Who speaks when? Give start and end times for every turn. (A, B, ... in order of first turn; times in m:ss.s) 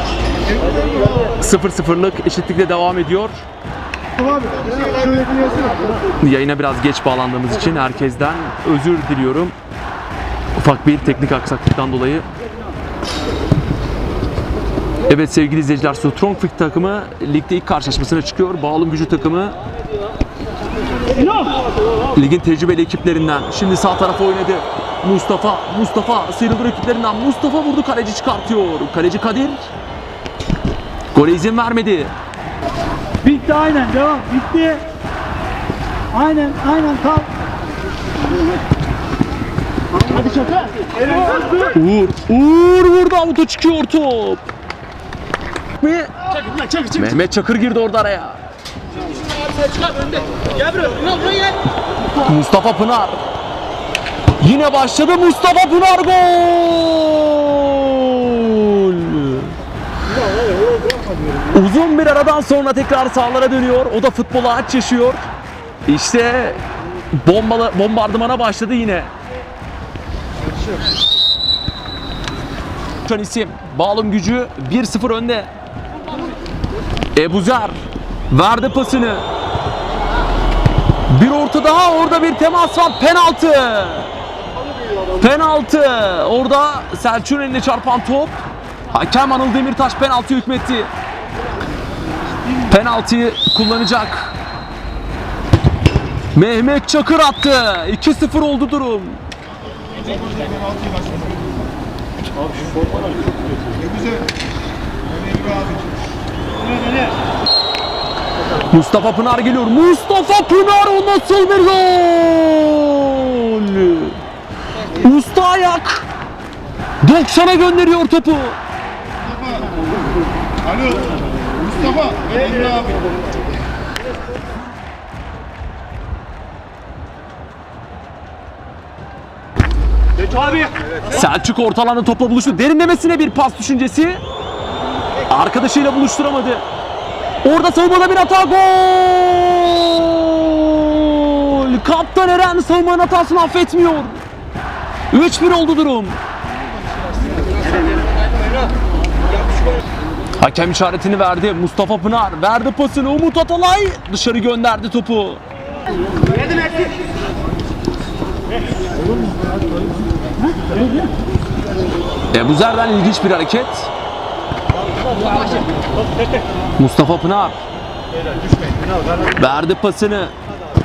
0:01.2-0:03.4 A
0:04.2-0:05.9 B
0:06.2-0:09.5 A
0:10.6-0:12.2 A
0:15.1-0:19.6 A
0:22.1-0:29.6 A
0:31.1-0:32.1 A
0:33.2-0:34.9 B
0:36.1-0:37.3 B
0:40.0-0:41.4 B
0:41.6-0:44.4 A
0:45.8-0:46.1 A
0:46.8-0:48.4 A
0:49.6-0:50.2 B
0:50.7-0:51.3 B
0:52.1-0:53.2 A
0:54.4-0:59.5 A
1:00.4-1:01.3 B
1:01.5-1:05.2 A
1:05.9-1:06.6 A
1:07.2-1:09.1 A
1:13.0-1:15.5 A
1:17.1-1:17.8 A
1:18.3-1:19.2 A
1:21.1-1:24.1 A
1:25.1-1:28.4 A
1:28.9-1:30.9 A
1:32.6-1:34.3 A
1:36.3-1:39.2 A
1:48.7-1:54.2 A
1:54.9-1:56.1 A
1:57.0-1:58.6 A
2:10.6-2:14.2 A
2:15.2-2:16.6 A
2:17.4-2:24.2 A
2:25.1-2:26.2 A
2:30.4-2:35.4 A
2:42.3-2:43.9 A
2:46.8-2:47.6 A
2:49.2-2:50.3 A